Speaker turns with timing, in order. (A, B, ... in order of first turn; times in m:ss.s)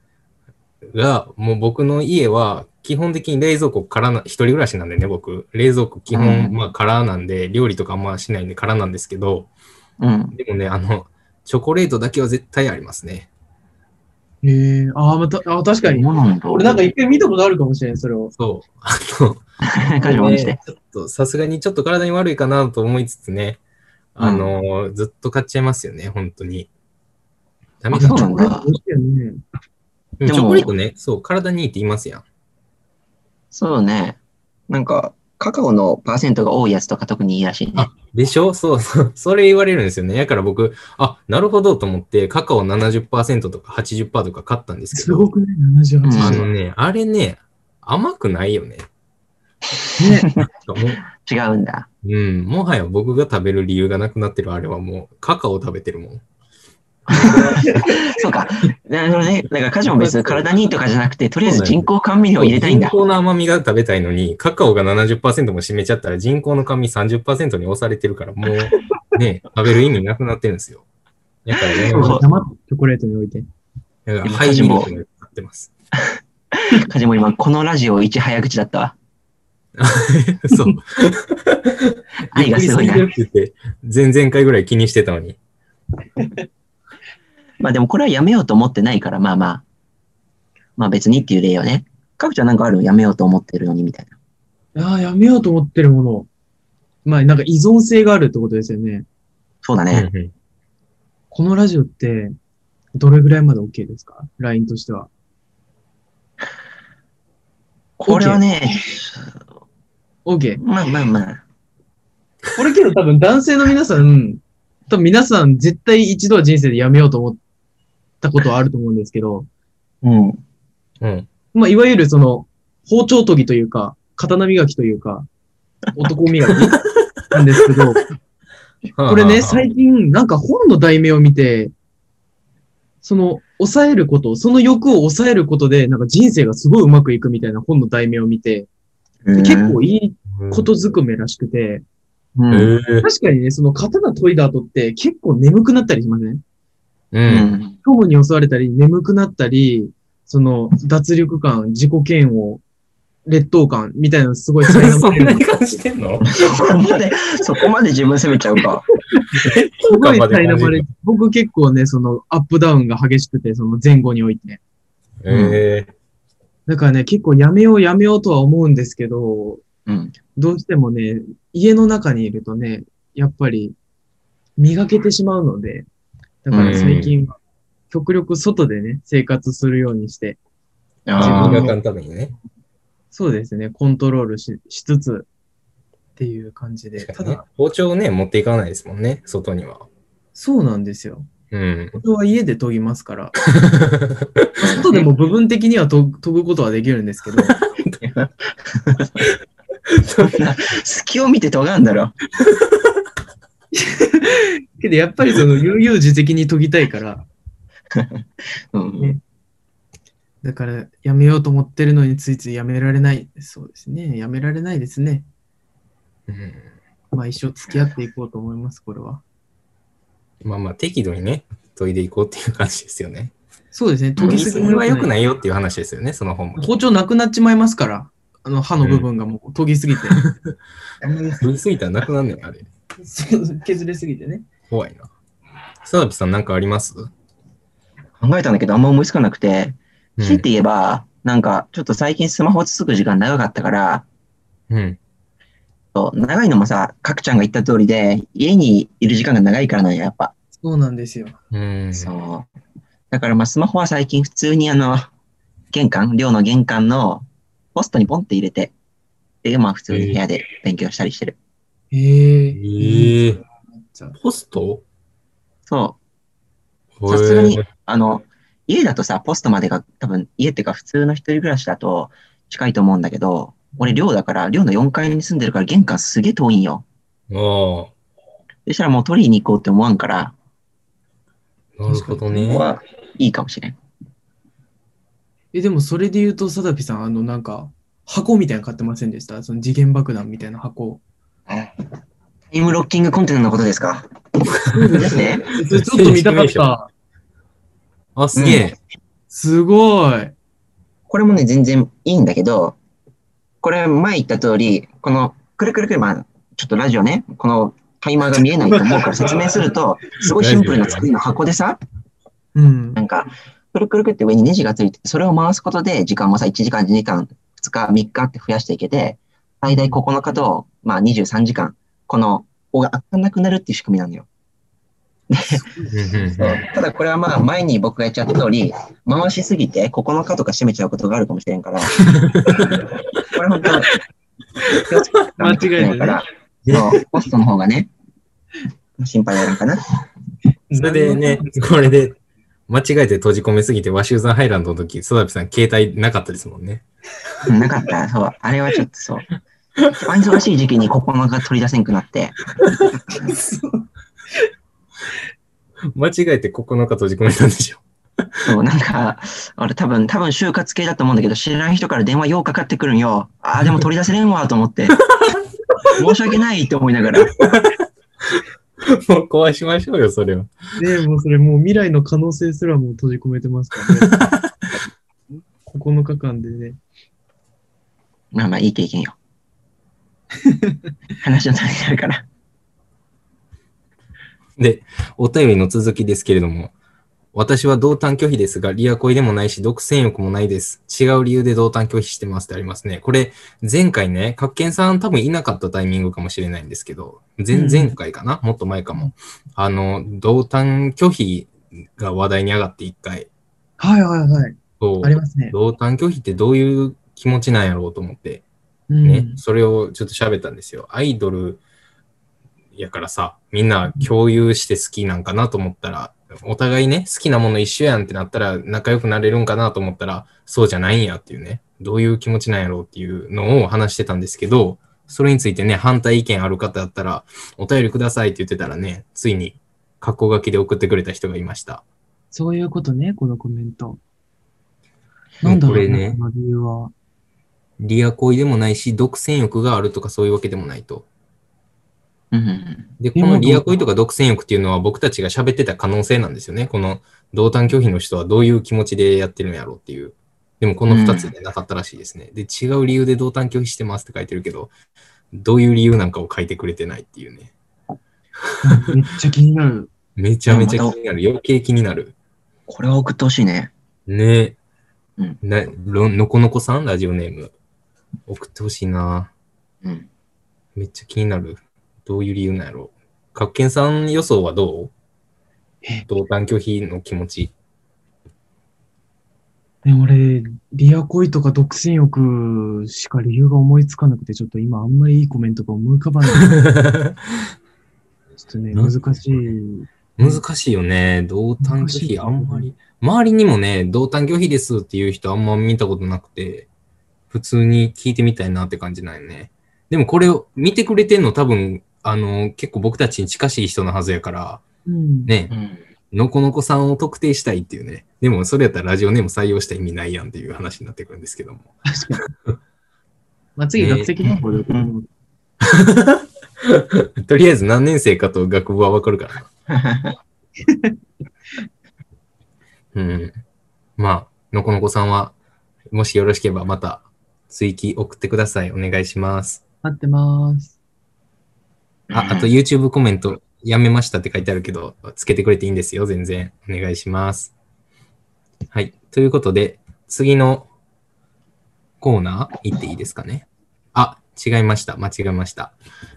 0:00.9-0:09.5 A
0:06.1-0:06.6 B
0:10.0-0:10.3 B
0:10.3-0:13.3 A
0:14.4-0:18.3 C
0:15.8-0:16.9 B
0:18.3-0:19.4 A
0:19.6-0:20.6 B
0:20.0-0:23.6 A
0:24.1-0:26.7 A
0:24.2-0:24.5 B
0:27.8-0:28.4 A
0:27.9-0:28.7 B
0:28.0-0:29.4 C
0:30.2-0:32.2 A
0:30.2-0:30.7 B
0:33.5-0:37.9 B
0:37.8-0:45.3 A
0:44.9-0:46.4 C
0:46.0-0:46.4 B
0:46.2-0:48.9 A
0:50.0-0:50.3 C
0:50.6-0:51.0 A
0:51.1-0:51.9 B
0:52.0-0:56.2 A
0:57.1-1:02.9 B
0:57.1-0:57.7 A
0:57.3-0:57.8 C
0:59.9-1:00.4 A
1:01.4-1:01.9 A
1:02.4-1:10.8 A
1:11.4-1:12.2 A
1:11.8-1:12.2 B
1:11.8-1:13.4 C
1:14.0-1:15.7 A
1:14.2-1:14.9 B
1:16.5-1:18.9 B
1:19.8-1:25.4 A
1:22.3-1:23.1 B
1:27.6-1:29.6 B
1:30.8-1:34.1 B
1:34.7-1:36.3 C
1:37.0-1:39.0 C
1:39.6-1:40.1 B
1:39.9-1:40.3 A
1:41.3-1:42.3 C
1:43.0-1:45.1 C
1:48.0-1:49.4 B
1:48.0-1:48.4 C
1:50.2-1:50.6 C
1:50.6-1:51.4 B
1:52.5-1:57.4 C
1:58.2-1:59.5 C
2:00.0-2:00.4 B
2:01.0-2:01.3 A
2:01.5-2:05.3 C
2:05.9-2:08.0 C
2:08.9-2:09.6 A
2:09.1-2:11.7 C
2:13.0-2:18.7 C
2:19.2-2:19.8 B
2:19.3-2:21.8 C
2:20.4-2:20.7 A
2:22.4-2:22.7 B
2:22.5-2:23.0 A
2:23.0-2:26.4 C
2:27.1-2:27.5 A
2:27.2-2:27.8 B
2:27.8-2:32.6 C
2:33.3-2:35.8 C
2:34.6-2:36.3 A
2:36.3-2:38.8 B
2:39.3-2:40.9 A
2:39.9-2:44.6 C
2:45.2-2:45.9 A
2:45.3-2:45.6 B
2:46.7-2:49.6 C
2:49.9-2:50.2 B
2:50.4-2:53.7 C
2:54.6-2:55.9 C
2:56.4-2:57.4 C
2:56.5-2:57.0 B
2:56.6-2:57.1 A
2:57.9-3:00.4 C
3:01.1-3:01.7 B
3:01.1-3:02.3 A
3:01.2-3:01.8 C
3:03.1-3:05.3 C
3:06.2-3:07.4 C
3:07.0-3:09.8 A
3:10.3-3:11.3 C
3:11.5-3:12.0 A
3:11.9-3:13.3 C
3:13.6-3:14.4 A
3:14.6-3:17.6 C
3:14.6-3:15.0 B
3:18.0-3:19.2 B
3:20.0-3:20.3 A
3:20.2-3:22.2 B
3:23.7-3:27.3 C
3:27.9-3:29.2 B
3:30.4-3:35.3 C
3:36.3-3:36.7 A
3:37.1-3:39.2 C
3:40.4-3:43.3 A
3:43.7-3:45.1 C
3:44.2-3:44.5 B
3:44.2-3:46.7 A
3:46.6-3:50.2 C
3:48.8-3:49.1 A
3:50.1-3:50.5 A
3:51.0-3:51.4 B
3:51.4-3:52.7 A
3:53.0-3:54.4 C
3:54.7-3:55.1 A
3:55.8-3:57.1 A
3:58.2-4:04.0 B
4:00.2-4:00.4 A
4:04.7-4:05.0 A
4:05.9-4:10.3 B
4:10.6-4:11.4 C
4:11.5-4:12.1 A
4:11.9-4:12.5 B
4:13.1-4:15.1 B
4:15.7-4:18.7 B
4:19.4-4:21.4 B
4:19.9-4:20.2 A
4:21.9-4:24.2 C
4:22.6-4:23.4 A
4:24.2-4:24.8 A
4:25.7-4:26.0 B
4:27.0-4:27.6 A
4:27.1-4:36.8 B
4:37.3-4:37.9 A
4:38.6-4:40.3 B
4:41.8-4:42.6 A
4:41.8-4:42.4 C
4:42.4-4:43.8 B
4:45.5-4:51.0 C
4:51.5-4:51.7 B
4:52.5-4:54.1 B
4:54.7-4:56.7 A
4:54.7-4:56.9 C
4:54.9-4:55.4 B
4:58.2-4:58.8 A
4:58.3-4:58.6 B
4:59.3-5:00.3 C
5:01.1-5:02.8 B
5:03.6-5:11.8 B
5:08.6-5:09.6 C
5:10.2-5:11.1 A
5:12.5-5:13.0 C
5:13.0-5:24.3 B
5:19.6-5:20.0 C
5:25.3-5:25.6 B
5:25.5-5:26.0 C
5:25.9-5:26.6 A
5:26.3-5:32.0 B
5:32.2-5:32.7 A
5:33.2-5:33.9 B
5:34.8-5:37.9 B
5:35.4-5:36.2 C
5:36.6-5:37.0 A
5:39.0-5:39.8 B
5:40.7-5:41.9 C
5:40.8-5:42.2 A
5:42.7-5:46.8 A
5:47.5-5:49.2 B
5:50.0-5:52.4 B
5:53.2-5:53.9 C
5:55.9-5:57.8 A
5:58.4-6:05.0 B
6:06.0-6:07.3 B
6:07.2-6:07.7 A
6:08.3-6:10.5 A
6:10.8-6:14.2 C
6:14.1-6:14.5 A
6:15.6-6:16.8 C
6:18.3-6:19.2 B
6:20.4-6:20.8 C
6:21.2-6:22.2 B
6:24.6-6:26.7 A
6:27.3-6:43.3 A
6:37.5-6:37.9 C
6:43.8-6:45.5 C
6:44.8-6:48.4 A
6:48.9-6:49.4 C
6:49.0-6:51.6 A
6:52.7-7:11.8 A
7:12.3-7:14.0 C
7:15.4-7:16.9 C
7:15.4-7:16.2 A
7:17.8-7:21.0 A
7:22.3-7:22.9 B
7:23.0-7:34.7 A
7:23.2-7:23.8 C
7:30.9-7:31.3 B
7:35.3-7:37.5 A
7:38.6-7:39.9 C
7:38.7-7:38.9 A
7:40.2-7:42.1 A
7:40.5-7:40.9 B
7:42.7-7:43.7 B
7:44.1-7:44.6 A
7:45.4-7:47.5 A
7:48.3-7:49.3 A
7:49.8-7:50.1 B
7:50.8-7:54.9 A
7:56.1-7:57.5 A
7:59.8-8:06.6 C
8:06.5-8:07.1 A
8:08.4-8:10.4 C
8:08.7-8:09.5 A
8:10.2-8:16.7 A
8:11.6-8:12.7 C
8:17.3-8:24.6 A
8:24.8-8:25.3 C
8:25.2-8:25.5 A
8:25.5-8:25.8 B
8:26.1-8:31.7 A
8:31.8-8:32.3 C
8:33.6-8:35.1 C
8:33.8-8:34.1 A
8:35.6-8:39.5 A
8:39.7-8:40.2 B
8:40.6-8:40.9 C
8:42.9-8:43.4 A
8:44.0-8:45.3 A
8:45.9-8:49.6 A
8:49.8-8:50.7 C
8:52.1-8:52.5 B
8:52.1-8:57.5 A
8:58.7-9:00.7 A
9:02.0-9:05.7 A